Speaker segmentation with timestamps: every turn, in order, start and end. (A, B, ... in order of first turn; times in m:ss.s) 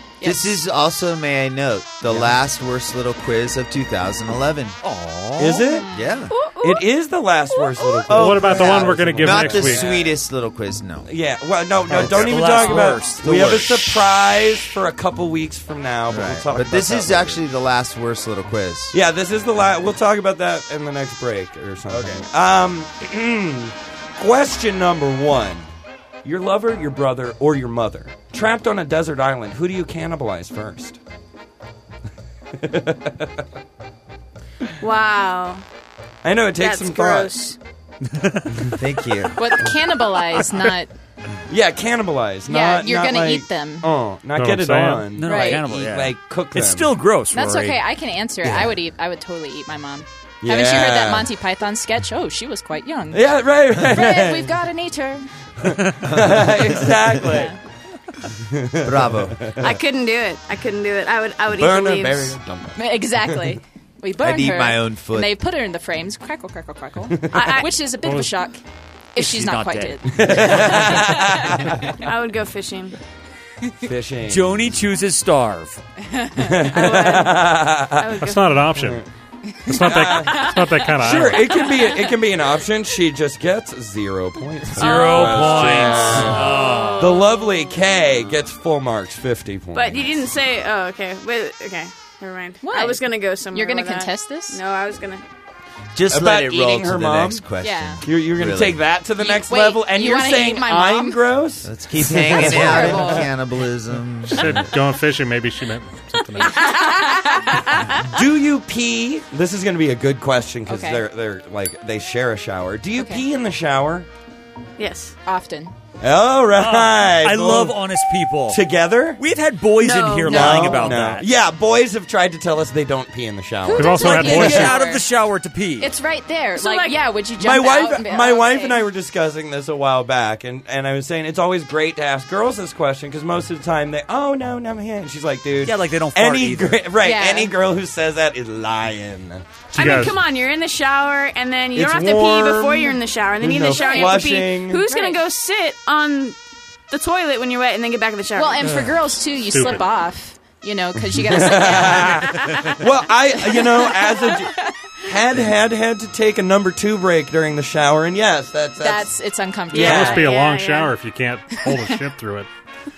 0:00.2-0:00.5 A
0:00.2-0:04.8 B
0:04.8-0:05.8 C
0:05.4-0:05.8 D
0:05.7-0:06.6 A
0:05.9-0:06.3 B
0:06.3-0:06.8 E
0:06.6-0:10.1 D
0:07.8-0:08.1 E
0:08.1-0:11.1 B
0:08.1-0:09.9 F
0:11.0-0:17.4 D
0:11.9-0:14.3 C
0:11.9-0:12.4 B
0:13.2-0:13.6 B
0:16.1-0:19.0 B
0:18.9-0:25.7 D
0:21.9-0:22.2 B
0:26.2-0:31.0 D
0:32.6-0:33.4 D
0:34.8-0:35.6 E
0:36.2-0:37.3 D
0:36.6-0:37.6 E
0:38.1-0:38.7 C
0:38.7-0:39.5 B
0:39.4-0:40.9 A
0:40.4-0:40.6 C
0:41.5-0:46.9 D
0:42.5-0:43.9 A
0:44.4-0:45.1 F
0:45.1-0:47.8 C
0:45.2-0:45.6 A
0:47.3-0:55.3 A
0:48.4-0:48.7 C
0:50.4-0:51.3 D
0:53.1-0:54.5 D
0:55.6-0:57.5 D
0:56.1-0:56.6 B
0:57.2-0:57.6 A
0:58.5-0:59.7 D
0:58.8-0:59.5 B
0:59.6-1:02.4 E
1:01.5-1:03.5 D
1:02.8-1:08.6 A
1:04.2-1:05.3 B
1:07.2-1:07.6 D
1:07.3-1:07.8 E
1:08.0-1:08.3 F
1:09.1-1:11.7 A
1:09.2-1:11.1 C
1:10.1-1:11.9 D
1:12.0-1:13.0 E
1:13.8-1:14.7 D
1:14.3-1:15.8 C
1:16.2-1:16.5 A
1:16.4-1:18.2 D
1:16.7-1:18.8 E
1:18.2-1:19.0 F
1:18.7-1:19.0 D
1:19.7-1:21.6 F
1:19.8-1:30.2 D
1:24.7-1:27.2 C
1:24.8-1:27.6 E
1:29.7-1:35.2 E
1:32.6-1:34.6 A
1:35.9-1:38.8 B
1:36.1-1:37.4 D
1:37.6-1:38.0 A
1:38.0-1:43.3 D
1:39.2-1:41.2 A
1:41.6-1:44.6 B
1:42.3-1:43.2 A
1:44.3-1:46.8 F
1:46.4-1:47.9 E
1:46.4-1:47.6 A
1:48.0-1:54.1 D
1:50.7-1:51.0 A
1:53.0-1:53.2 A
1:54.8-1:55.2 E
1:55.2-1:55.7 A
1:56.0-1:57.8 D
1:56.6-1:58.6 C
1:58.5-1:59.2 D
1:59.2-2:01.3 C
1:59.8-2:00.9 E
2:00.2-2:04.7 D
2:03.6-2:05.0 A
2:03.7-2:04.8 F
2:04.0-2:05.9 C
2:05.8-2:08.8 A
2:06.6-2:07.0 E
2:07.4-2:20.0 D
2:15.6-2:16.8 C
2:17.0-2:17.5 A
2:19.7-2:26.4 E
2:19.7-2:20.2 F
2:21.7-2:24.8 D
2:23.7-2:24.2 A
2:24.9-2:25.2 A
2:26.9-2:28.7 E
2:28.4-2:32.5 A
2:29.5-2:29.9 F
2:31.2-2:39.1 D
2:33.6-2:34.4 A
2:38.8-2:40.3 A
2:39.7-2:40.9 E
2:39.7-2:42.5 F
2:39.8-2:40.2 D
2:41.6-2:41.9 A